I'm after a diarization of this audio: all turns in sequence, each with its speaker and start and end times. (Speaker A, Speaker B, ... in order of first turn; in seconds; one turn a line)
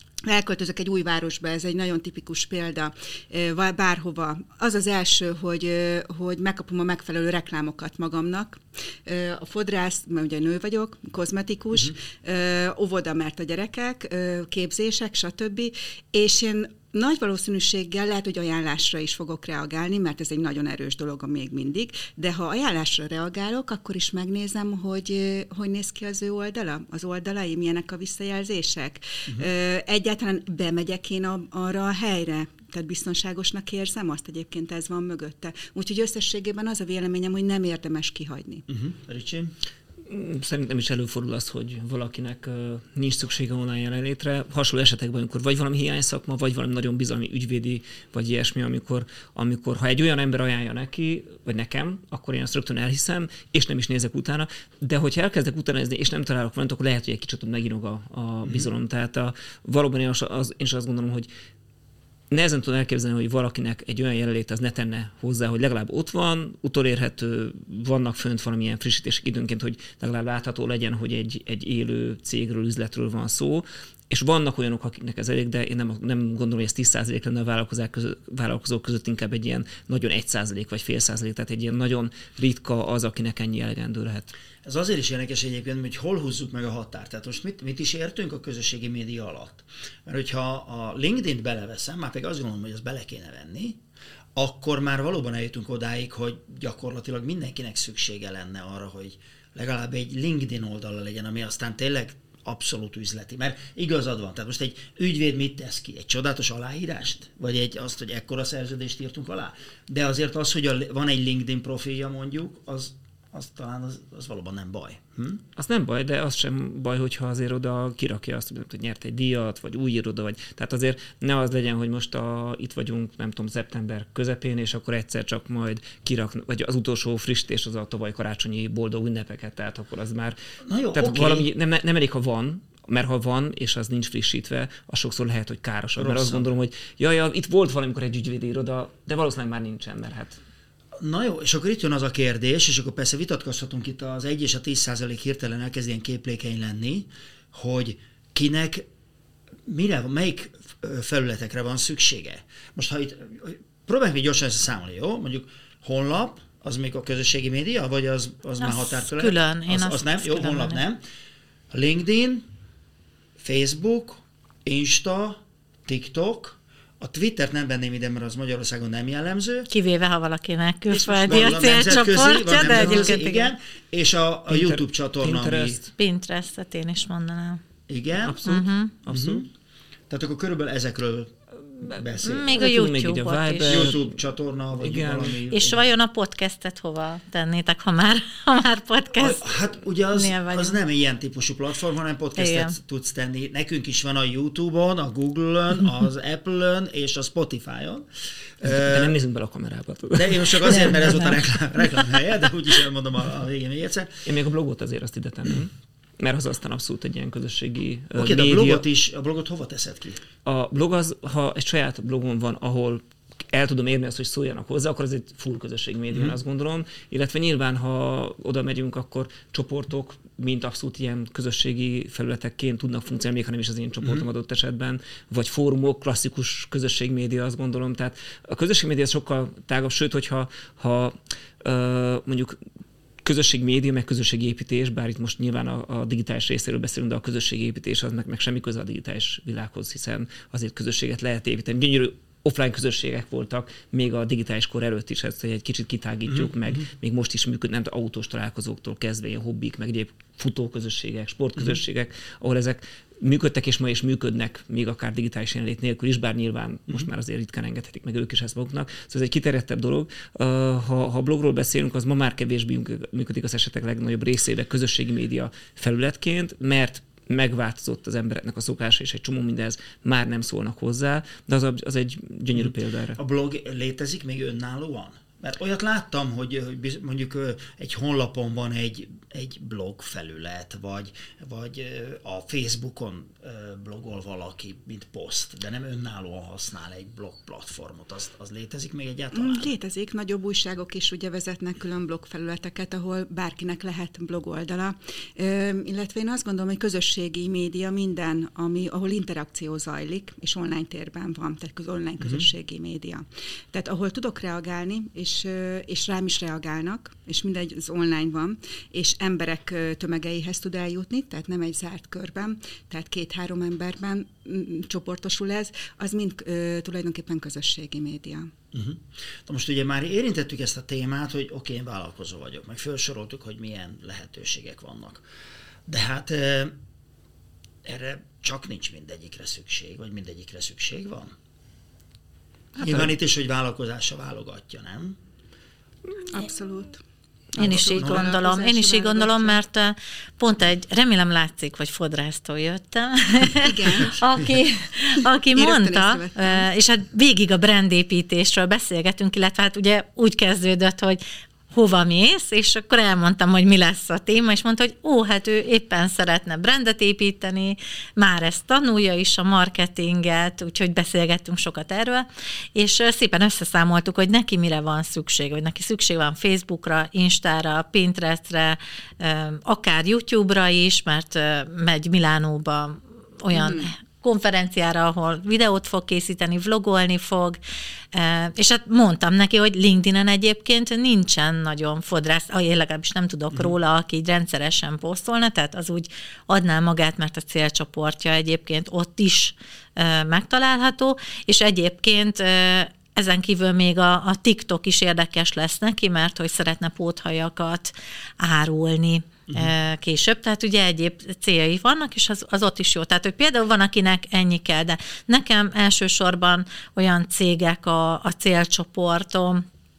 Speaker A: 0.2-38.7
Speaker B: 38.7-39.5
Speaker C: 40.1-61.3
Speaker C: 62.3-84.3
Speaker B: 84.6-93.8
Speaker B: 94.4-115.4
Speaker C: 115.6-130.4
Speaker B: 130.6-131.5
Speaker C: 130.9-140.4
Speaker B: 136.0-136.5
Speaker B: 141.0-148.9
Speaker B: 149.7-161.0
Speaker D: 158.6-160.8
Speaker B: 161.7-162.4
Speaker B: 163.4-169.7
Speaker D: 169.7-173.5
Speaker B: 170.9-175.8
Speaker C: 172.6-173.1
Speaker C: 174.5-175.9
Speaker D: 175.9-177.6
Speaker B: 177.9-178.6
Speaker C: 178.2-179.4
Speaker D: 178.4-178.9
Speaker B: 179.1-179.5
Speaker B: 180.1-182.6
Speaker C: 181.8-184.2
Speaker D: 182.2-183.9
Speaker B: 183.7-185.9
Speaker C: 184.8-185.4
Speaker D: 185.5-189.6
Speaker B: 189.2-198.1
Speaker D: 190.1-190.8
Speaker D: 192.4-192.7
Speaker B: 198.6-199.1
Speaker C: 198.6-201.4
Speaker B: 200.1-204.2
Speaker C: 204.2-208.8
Speaker B: 208.2-210.2
Speaker C: 210.4-232.6
Speaker C: 233.2-273.2
Speaker B: 272.6-289.7
Speaker A: 289.3-318.5
Speaker B: 318.7-325.2
Speaker B: 325.9-326.8
Speaker B: 327.8-331.3
Speaker B: 332.8-335.2
Speaker C: 332.8-333.1
Speaker A: 336.3-337.0
Speaker A: 337.5-339.6
Speaker D: 337.6-351.2
Speaker A: 343.4-344.2
Speaker A: 345.5-346.7
Speaker D: 351.7-377.6
Speaker A: 373.5-373.9
Speaker D: 378.1-409.6